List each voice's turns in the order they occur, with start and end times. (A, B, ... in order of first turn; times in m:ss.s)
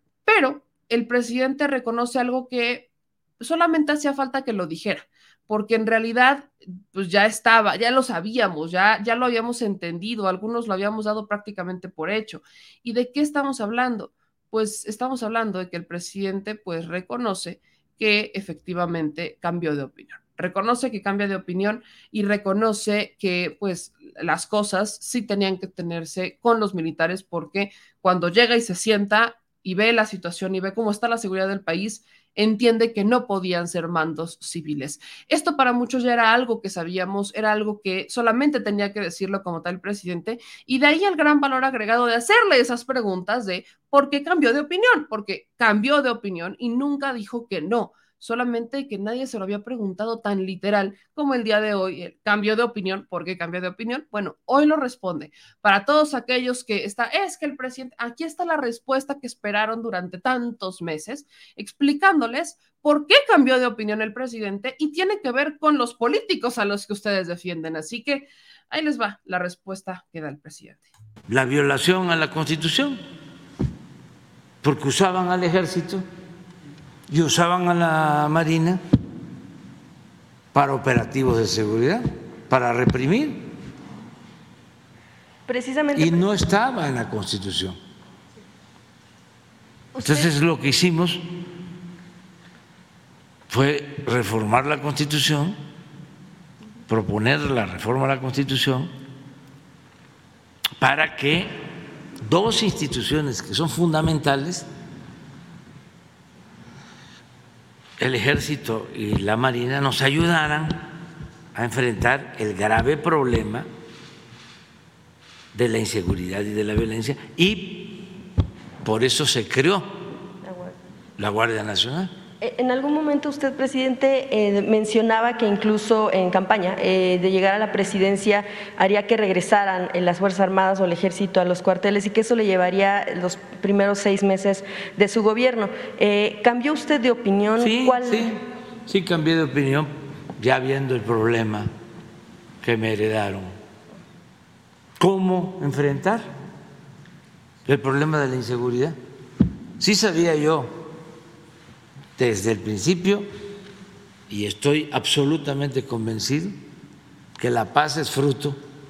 0:00.2-0:02.9 A
0:03.4-1:10.9 A
1:11.3-1:13.0 B
1:14.6-1:16.0 B
1:17.1-1:18.8 B
1:20.5-1:23.5 B
1:25.5-1:26.4 C
1:25.9-1:27.8 B
1:30.0-1:31.2 B
1:30.0-1:30.3 C
1:33.5-1:35.6 B
1:36.9-1:38.9 B
1:40.8-1:41.6 B
1:42.2-1:44.7 B
1:48.0-1:51.0 B
1:51.5-1:53.7 B
1:55.5-1:58.1 B
1:58.8-1:59.9 B
2:00.4-2:00.8 C
2:01.2-2:02.1 B
2:02.4-2:18.4 C
2:17.6-2:21.7 B
2:22.6-2:23.5 B
2:25.0-2:26.3 B
2:27.6-2:29.0 B
2:29.8-2:30.7 B
2:32.2-2:33.3 B
2:34.3-2:36.6 B
2:37.4-2:38.6 B